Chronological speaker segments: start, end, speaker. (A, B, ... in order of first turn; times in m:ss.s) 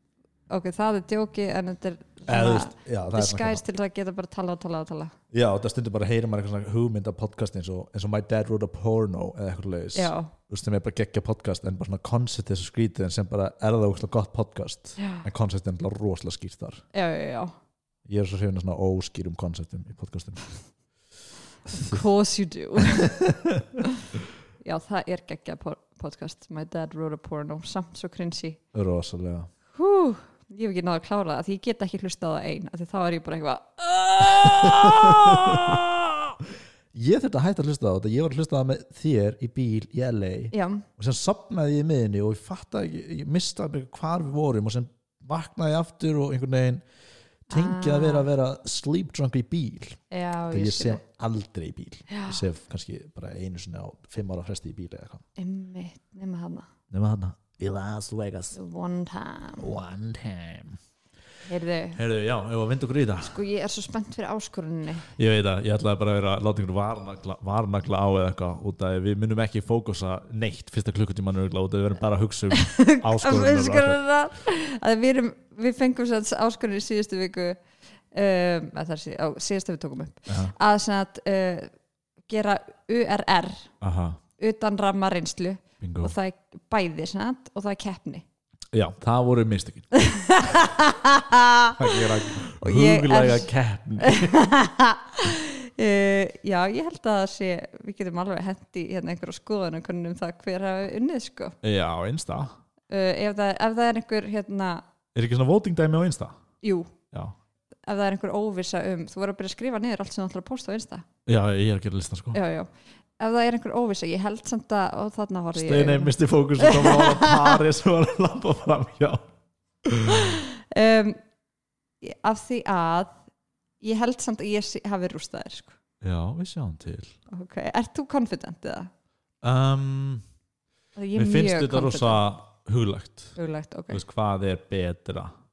0:00.5-0:05.1 A
0:02.3-0:03.6 B
0:05.3-0:16.8 B
0:09.9-0:10.3 A
0:15.0-0:15.3 A
0:16.9-0:17.5 A
0:18.1-0:20.4 B
0:21.7-0:22.0 B
0:21.7-0:23.3 A
0:22.8-0:23.6 B
0:24.6-0:28.6 A
0:28.7-0:29.5 B
0:29.7-0:36.2 A
0:34.3-0:35.8 B
0:36.9-0:46.8 B
0:40.5-0:40.8 A
0:47.5-0:55.2 B
0:47.5-0:48.3 A
0:50.1-0:51.0 A
0:52.1-0:52.4 A
0:55.4-0:56.7 A
0:56.9-0:58.6 B
0:58.6-0:59.7 A
0:59.6-1:00.8 B
1:01.5-1:02.0 A
1:02.0-1:03.4 B
1:03.2-1:05.1 A
1:05.2-1:14.0 B
1:12.5-1:17.6 A
1:18.1-1:21.7 A
1:20.3-1:20.5 B
1:22.3-1:23.7 A
1:23.8-1:24.2 B
1:24.4-1:28.2 A
1:25.8-1:26.1 B
1:28.7-1:29.9 B
1:29.9-1:41.6 A
1:31.8-1:34.5 B
1:41.6-1:42.6 B
1:42.9-1:44.8 A
1:45.1-1:46.4 B
1:46.6-1:46.9 A
1:47.9-1:51.0 A
1:51.3-1:52.4 B
1:52.3-1:57.6 A
1:55.6-1:59.2 B
1:59.8-2:00.4 B
2:00.1-2:01.2 A
2:02.0-2:03.2 A
2:03.8-2:05.8 A
2:06.0-2:07.2 B
2:07.3-2:08.9 A
2:09.4-2:10.2 B
2:11.0-2:12.2 A
2:11.2-2:13.4 B
2:13.4-2:14.0 A
2:13.9-2:15.3 B